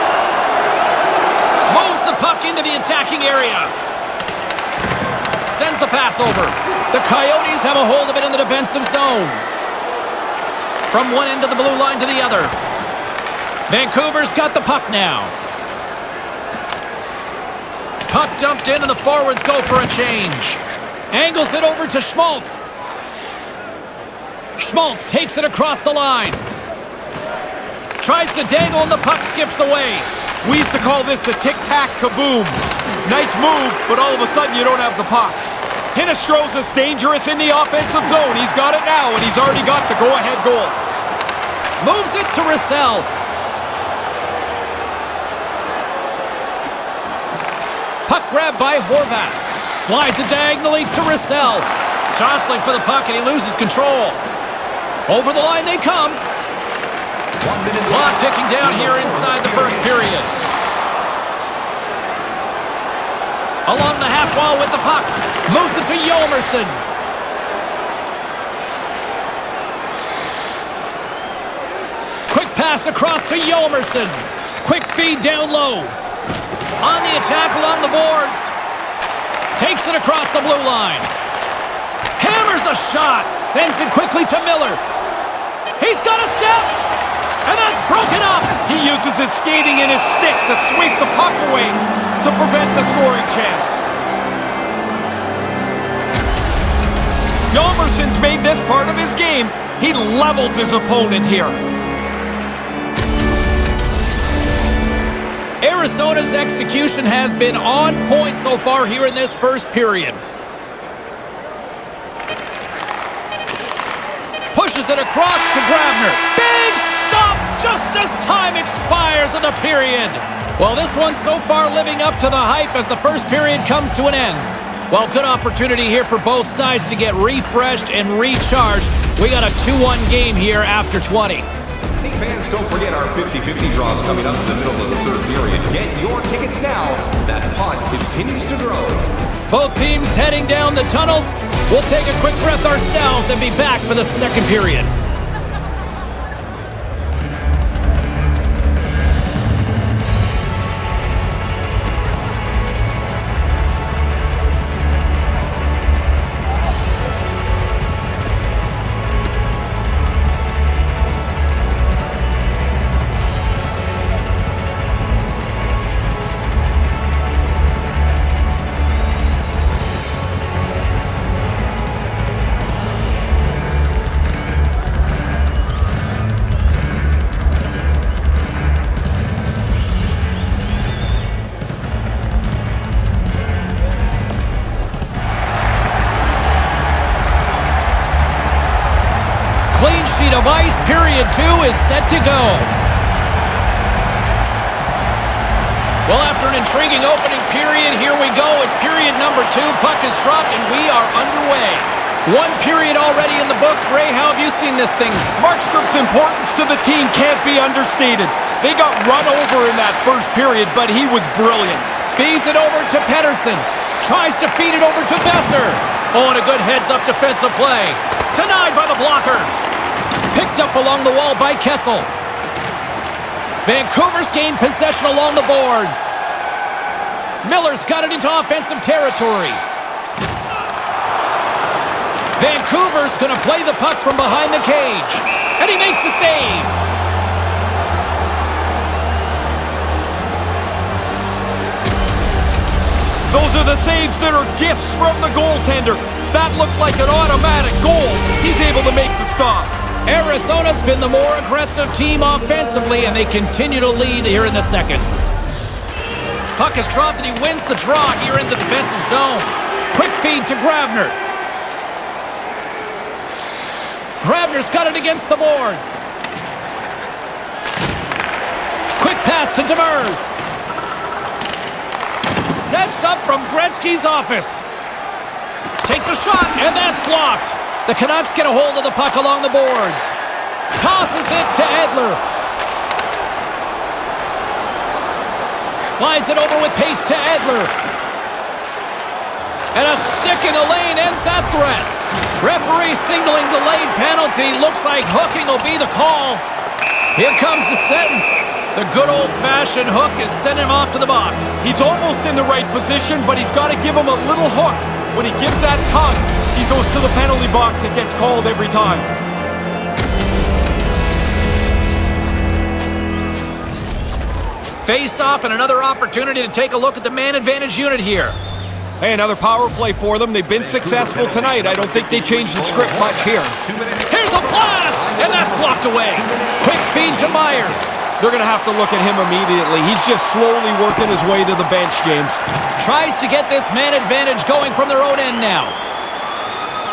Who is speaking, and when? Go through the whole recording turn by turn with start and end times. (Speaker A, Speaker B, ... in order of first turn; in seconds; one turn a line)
Speaker A: 1.7-3.7
Speaker A: 5.5-9.4
Speaker A: 10.9-12.6
Speaker A: 13.7-15.3
Speaker A: 18.1-20.6
Speaker A: 21.1-22.6
Speaker A: 24.6-26.4
Speaker A: 28.0-30.1
Speaker B: 30.4-35.4
Speaker B: 35.9-40.8
Speaker A: 41.8-43.1
Speaker A: 48.1-54.2
Speaker A: 55.1-56.2
Speaker C: 57.4-59.9
Speaker A: 57.9-60.3
Speaker A: 63.7-66.8
Speaker A: 72.3-76.0
Speaker A: 76.8-78.5
Speaker A: 79.6-81.1
Speaker A: 82.2-84.8
Speaker A: 85.8-86.8
Speaker A: 87.5-88.6
Speaker B: 88.7-93.8
Speaker B: 97.5-101.6
Speaker A: 105.6-110.2
Speaker A: 114.5-131.5
Speaker C: 132.0-139.1
Speaker A: 139.5-144.9
Speaker A: 189.7-192.8
Speaker A: 196.1-205.3
Speaker B: 205.4-211.9
Speaker A: 212.2-219.5
Speaker A: 220.3-222.1
Speaker A: 223.7-226.1
Speaker A: 227.4-229.6
Speaker A: 232.4-236.8
Speaker B: 243.3-249.7
Speaker A: 250.1-255.1
Speaker A: 256.6-261.2
Speaker A: 264.2-266.0
Speaker A: 269.0-270.3
Speaker A: 272.5-274.6
Speaker A: 275.8-280.1
Speaker A: 280.8-282.2
Speaker A: 285.8-287.7
Speaker A: 289.7-296.4
Speaker A: 297.2-301.6
Speaker B: 301.6-309.1
Speaker A: 314.8-318.4
Speaker B: 319.0-323.6
Speaker C: 320.5-327.9
Speaker A: 324.1-327.9
Speaker B: 328.2-332.4
Speaker A: 332.8-335.8